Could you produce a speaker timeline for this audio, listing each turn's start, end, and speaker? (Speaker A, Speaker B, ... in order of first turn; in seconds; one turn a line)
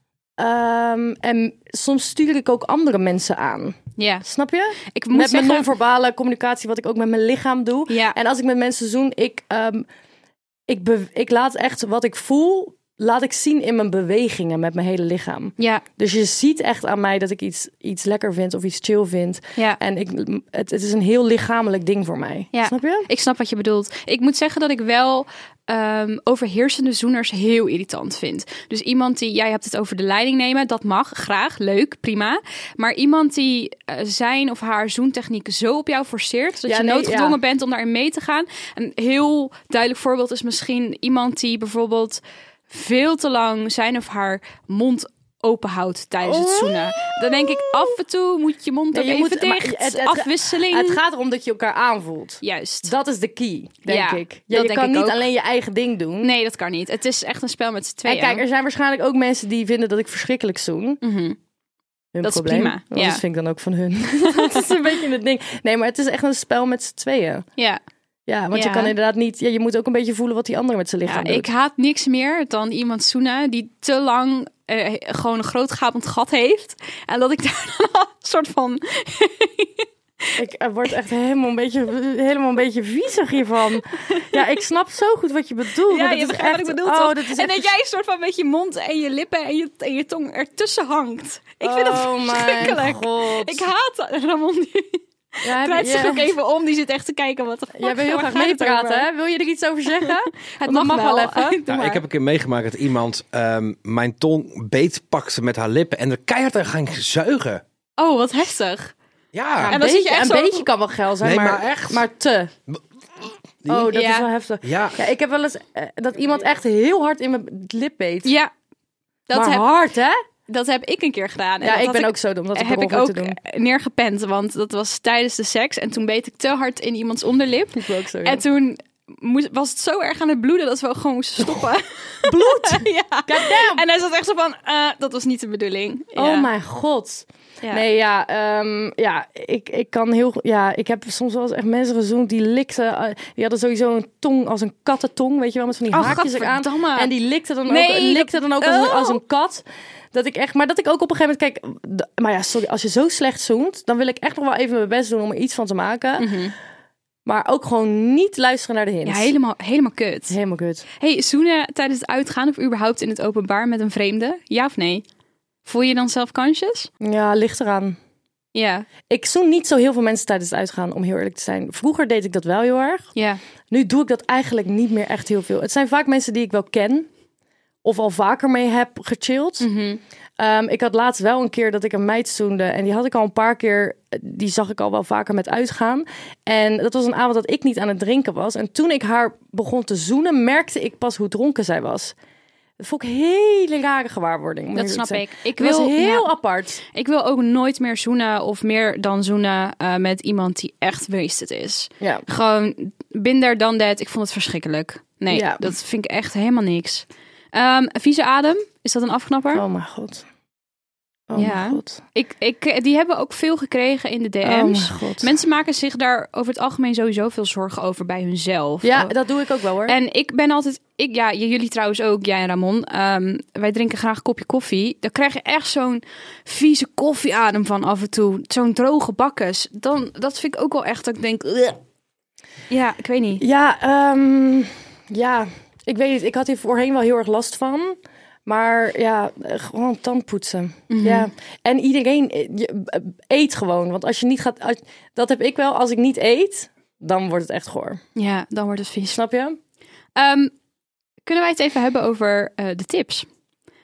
Speaker A: 0.4-9.9
Speaker B: 4.0-4.2
Speaker B: 4.9-5.7
Speaker B: 7.9-8.2
Speaker A: 10.7-23.1
Speaker B: 15.6-15.8
Speaker B: 22.5-51.0
Speaker A: 36.7-37.4
Speaker A: 46.2-48.0
Speaker A: 48.9-56.3
Speaker B: 52.4-52.9
Speaker B: 53.9-55.3
Speaker B: 56.2-58.4
Speaker A: 58.1-61.0
Speaker B: 61.0-61.4
Speaker A: 62.1-67.5
Speaker B: 62.2-63.2
Speaker B: 64.2-64.7
Speaker A: 68.3-71.5
Speaker B: 68.5-68.9
Speaker B: 71.1-79.9
Speaker A: 80.4-87.7
Speaker B: 84.1-84.4
Speaker B: 85.9-99.1
Speaker A: 91.6-93.7
Speaker A: 95.4-96.3
Speaker A: 97.8-101.6
Speaker B: 99.9-102.0
Speaker C: 101.7-107.6
Speaker B: 108.0-108.9
Speaker C: 109.3-109.7
Speaker A: 109.6-112.5
Speaker B: 109.7-110.7
Speaker C: 111.2-112.0
Speaker C: 113.7-113.9
Speaker A: 113.7-118.3
Speaker B: 113.9-114.3
Speaker C: 114.6-115.0
Speaker B: 118.2-118.5
Speaker B: 119.3-119.7
Speaker A: 119.3-120.2
Speaker B: 120.5-136.5
Speaker A: 121.6-123.4
Speaker A: 127.7-128.4
Speaker A: 132.2-133.8
Speaker A: 136.2-156.3
Speaker B: 145.9-147.1
Speaker B: 147.7-149.2
Speaker B: 156.2-156.5
Speaker A: 157.2-159.3
Speaker B: 159.1-160.4
Speaker A: 160.3-160.8
Speaker B: 161.0-165.1
Speaker B: 165.7-166.9
Speaker A: 167.0-168.0
Speaker B: 168.5-168.9
Speaker A: 169.1-173.1
Speaker B: 173.2-173.4
Speaker A: 173.7-177.1
Speaker A: 177.8-179.7
Speaker B: 179.6-180.0
Speaker A: 180.4-192.2
Speaker A: 192.8-196.8
Speaker B: 194.7-196.3
Speaker B: 196.8-209.6
Speaker A: 205.3-205.7
Speaker A: 209.5-210.3
Speaker A: 211.3-212.0
Speaker B: 211.3-219.1
Speaker A: 214.4-215.3
Speaker A: 218.8-220.0
Speaker B: 219.9-231.8
Speaker B: 232.7-233.4
Speaker A: 233.4-248.0
Speaker B: 240.9-241.3
Speaker B: 248.2-249.2
Speaker A: 249.1-249.6
Speaker B: 250.2-250.5
Speaker B: 251.2-253.3